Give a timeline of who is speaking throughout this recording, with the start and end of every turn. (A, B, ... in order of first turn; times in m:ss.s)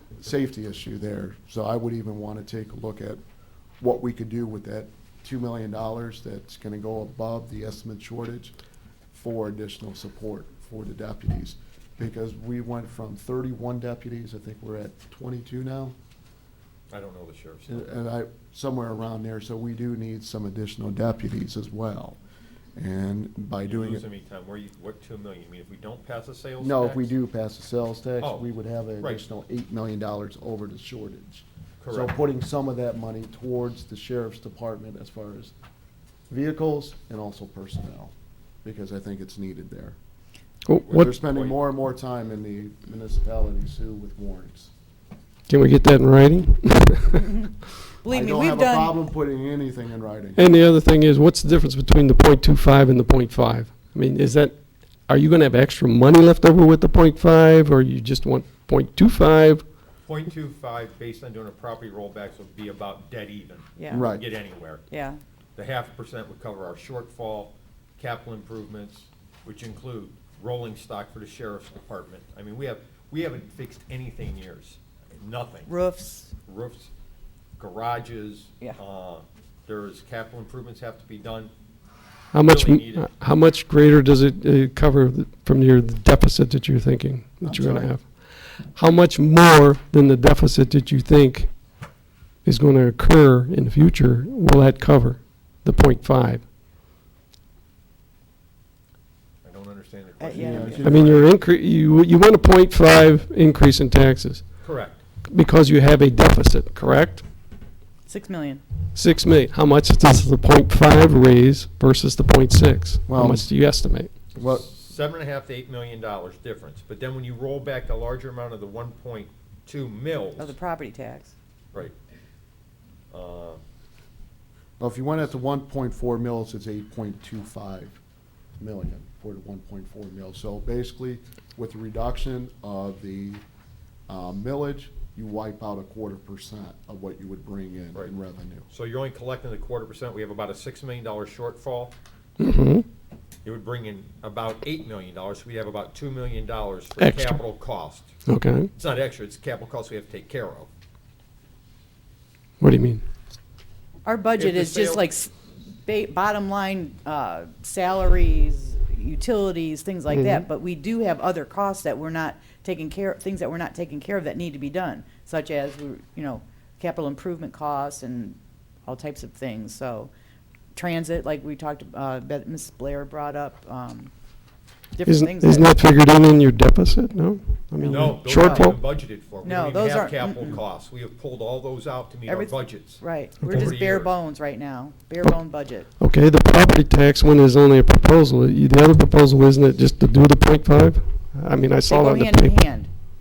0:00.2-0:03.2 A
0:03.8-0:08.6 A
0:09.1-0:16.0 A
0:16.9-0:17.9 B
0:17.7-0:22.2 A
0:22.8-0:24.0 A
0:23.6-0:27.1 B
0:26.6-0:35.5 A
0:28.2-0:28.5 B
0:31.8-0:32.2 B
0:36.3-0:38.1 A
0:38.6-0:40.0 A
0:40.7-0:41.1 C
0:40.9-0:41.6 B
0:40.9-0:44.7 A
0:45.5-0:47.3 C
0:47.2-0:47.5 D
0:48.0-0:49.0 D
0:48.1-0:50.5 A
0:50.4-0:54.6 C
0:55.1-0:59.6 C
1:00.0-1:04.8 B
1:03.8-1:04.1 D
1:03.9-1:04.2 A
1:04.9-1:05.2 D
1:05.6-1:15.7 B
1:15.7-1:16.3 D
1:16.5-1:16.9 B
1:17.6-1:21.5 B
1:22.3-1:31.5 C
1:22.4-1:23.1 B
1:27.4-1:27.9 A
1:32.4-1:36.4 C
1:39.4-1:41.3 B
1:40.2-1:41.1 D
1:40.4-1:40.9 A
1:40.8-1:44.6 C
1:44.6-1:45.0 B
1:45.3-1:47.2 C
1:48.1-1:48.6 D
1:49.0-1:54.1 C
1:53.1-1:53.5 A
1:54.4-1:54.7 A
1:54.4-2:00.5 B
2:00.4-2:01.3 D
2:03.1-2:03.6 B
2:04.8-2:08.0 A
2:08.6-2:13.4 A
2:14.1-2:18.7 A
2:18.7-2:22.0 B
2:22.4-2:22.8 C
2:23.4-2:28.1 B
2:27.0-2:27.4 C
2:28.3-2:28.7 C
2:28.8-2:30.7 B
2:32.6-2:33.0 C
2:34.0-2:35.3 D
2:34.4-2:35.1 B
2:35.8-2:50.1 D
2:40.1-2:40.4 C
2:50.8-2:54.1 D
2:55.0-2:55.7 D
2:55.1-2:58.8 C
2:57.8-2:58.7 D
2:57.9-3:04.1 B
2:59.4-3:00.6 D
3:02.3-3:05.9 D
3:06.0-3:12.6 C
3:11.9-3:12.9 D